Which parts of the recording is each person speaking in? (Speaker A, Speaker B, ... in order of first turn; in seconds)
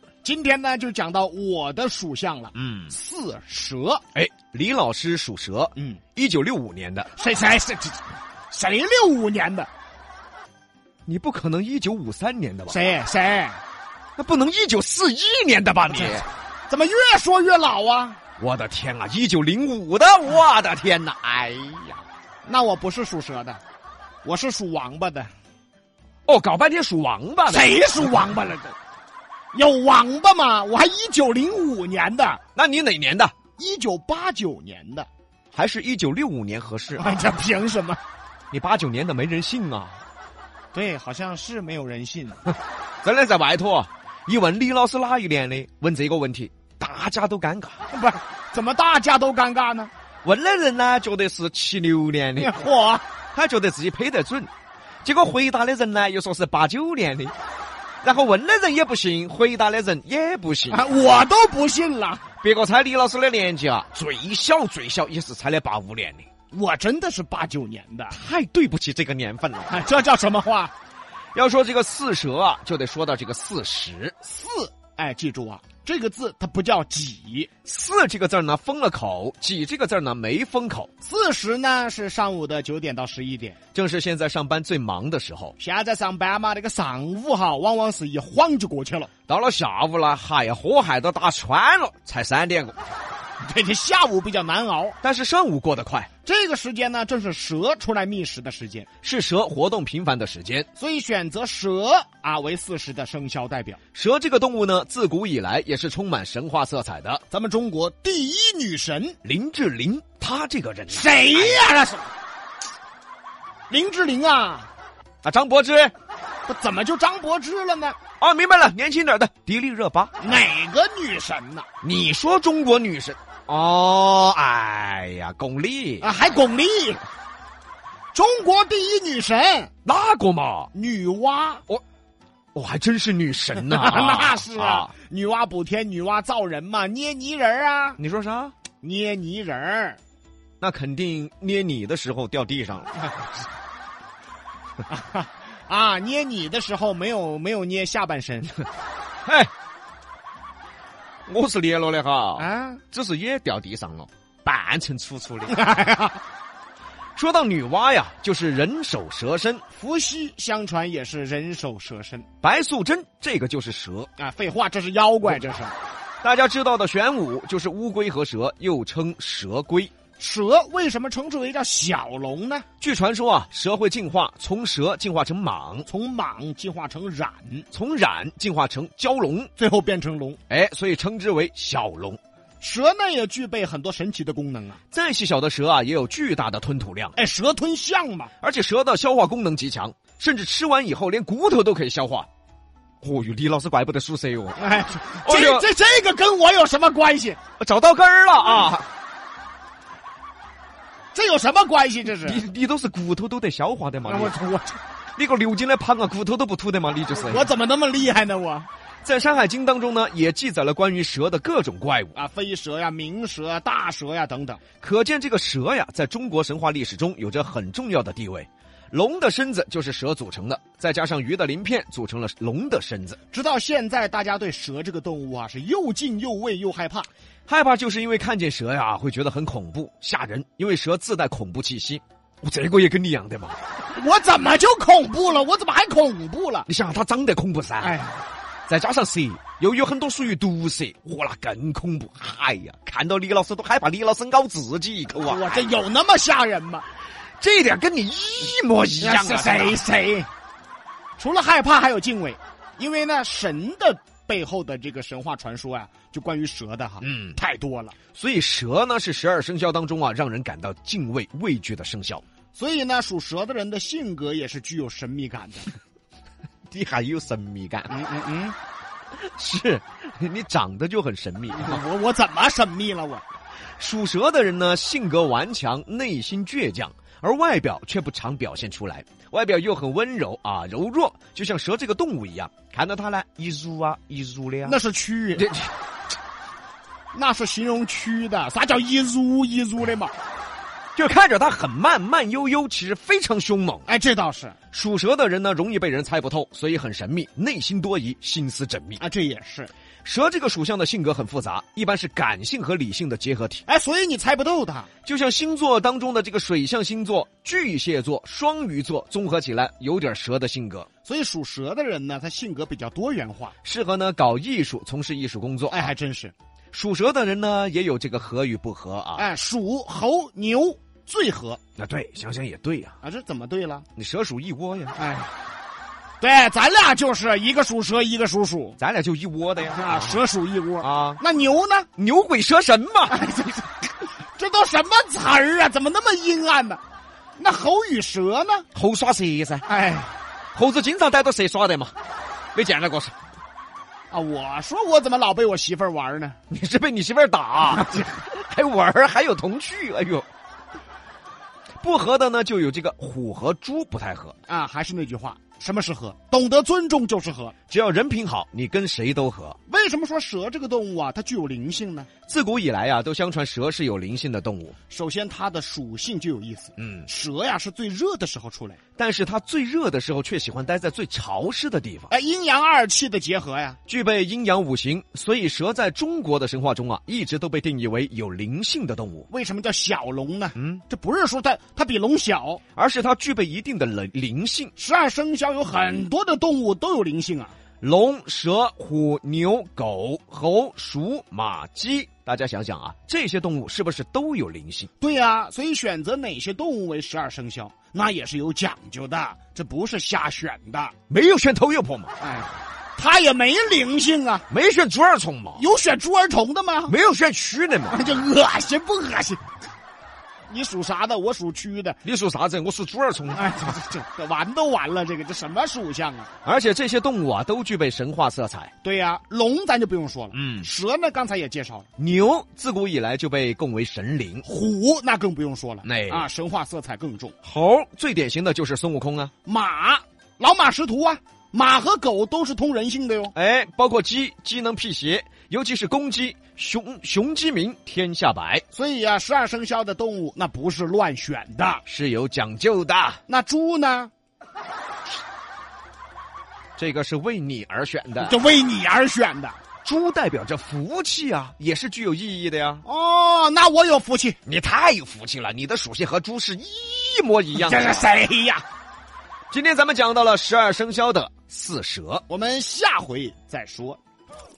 Speaker A: 0.2-4.0, 7.2-9.7, 12.7-13.6, 15.9-18.2, 22.4-23.6, 24.2-25.3, 27.5-28.7, 29.5-32.4, 33.6-35.1, 37.0-38.0, 40.7-42.4, 47.9-49.9, 52.4-53.0, 60.7-62.2, 66.5-68.2, 69.7-70.7, 74.2-77.5, 81.0-83.6, 85.6-89.1, 93.4-95.0, 96.2-98.9, 100.8-103.8, 107.3-109.2, 110.9-112.1, 113.7-114.7, 116.5-118.0, 120.2-121.7, 126.0-127.0, 128.1-129.7, 130.7-131.6, 133.5-138.0, 138.8-140.0, 144.9-148.5, 152.4-152.8, 155.5-156.2, 159.7-162.3, 164.2-165.8, 170.2-172.7, 175.9-177.7, 179.6-180.4, 182.6-184.8, 187.2-188.3, 194.6-197.4, 201.1-202.4, 204.0-204.8, 207.2-208.7, 212.1-214.6, 223.3-227.1, 233.9-236.7, 237.8-238.2, 245.2-246.8, 249.0-250.3, 251.2-257.9, 262.5-265.7, 267.9-268.6, 271.5-273.2, 284.6-285.5, 287.1-290.1, 293.9-294.6, 299.0-299.7, 303.7-304.9, 311.1-313.5, 315.7-316.3, 319.1-321.6, 323.0-323.9, 324.9-325.3, 326.2-328.8, 329.7-331.9, 333.1-333.7, 334.4-336.8, 337.4-338.7, 339.7-340.1, 344.1-346.4, 354.5-357.5, 359.7-362.1, 364.9-368.8, 372.1-373.8, 379.3-382.6, 384.8-387.5, 395.0-400.9, 402.2-404.4, 405.6-406.9, 407.9-409.4, 410.5-412.0, 413.3-416.3, 418.8-421.9, 424.4-427.3, 429.4-433.3, 438.7-441.8, 443.3-444.1, 448.2-449.6, 452.8-454.4, 457.5-458.6, 462.3-464.0
Speaker B: 2.5-2.9, 4.1-7.1, 11.1-12.9, 14.2-16.3, 18.4-22.0, 26.3-27.8, 32.5-33.3, 35.5-37.1, 38.5-40.0, 43.0-47.8, 50.2-52.5, 53.3-54.5, 55.0-57.3, 58.0-60.8, 62.4-66.3, 68.1-69.7, 71.3-74.2, 77.6-80.9, 83.7-85.5, 89.3-92.8, 95.0-96.1, 99.0-100.7, 103.9-107.2, 109.2-111.7, 115.2-115.9, 118.2-120.3, 121.8-126.1, 129.8-130.7, 132.5-134.9, 138.0-138.5, 140.6-143.1, 149.2-149.5, 151.3-155.6, 157.2-159.6, 162.4-164.1, 166.2-169.9, 172.8-175.9, 177.7-179.5, 180.5-182.2, 184.9-187.1, 188.4-192.3, 193.0-194.6, 195.2-195.7, 197.6-198.8, 202.2-204.3, 205.2-207.5, 209.0-212.2, 214.8-223.2, 227.5-233.6, 236.7-237.9, 238.7-245.6, 247.4-249.8, 257.0-257.4, 258.1-262.2, 266.7-267.9, 269.2-271.8, 273.8-284.8, 285.4-285.7, 290.9-293.8, 294.7-299.0, 300.0-303.6, 305.1-310.9, 313.6-315.9, 316.7-319.3, 321.8-322.9, 323.9-325.0, 328.8-330.2, 330.8-331.2, 332.0-333.2, 338.7-339.7, 340.5-341.9, 342.5-343.1, 346.5-350.3, 351.8-354.4, 357.7-359.6, 362.3-364.8, 366.8-367.1, 369.0-372.1, 373.9-379.3, 380.6-380.8, 382.8-384.7, 387.8-394.9, 401.1-402.1, 404.5-405.6, 406.9-408.0, 412.0-413.5, 416.4-418.7, 420.3-420.7, 422.0-424.4, 425.8-426.2, 427.4-429.3, 433.3-438.6, 441.9-443.2, 446.8-448.4, 449.8-452.8, 454.4-458.0, 459.5-462.2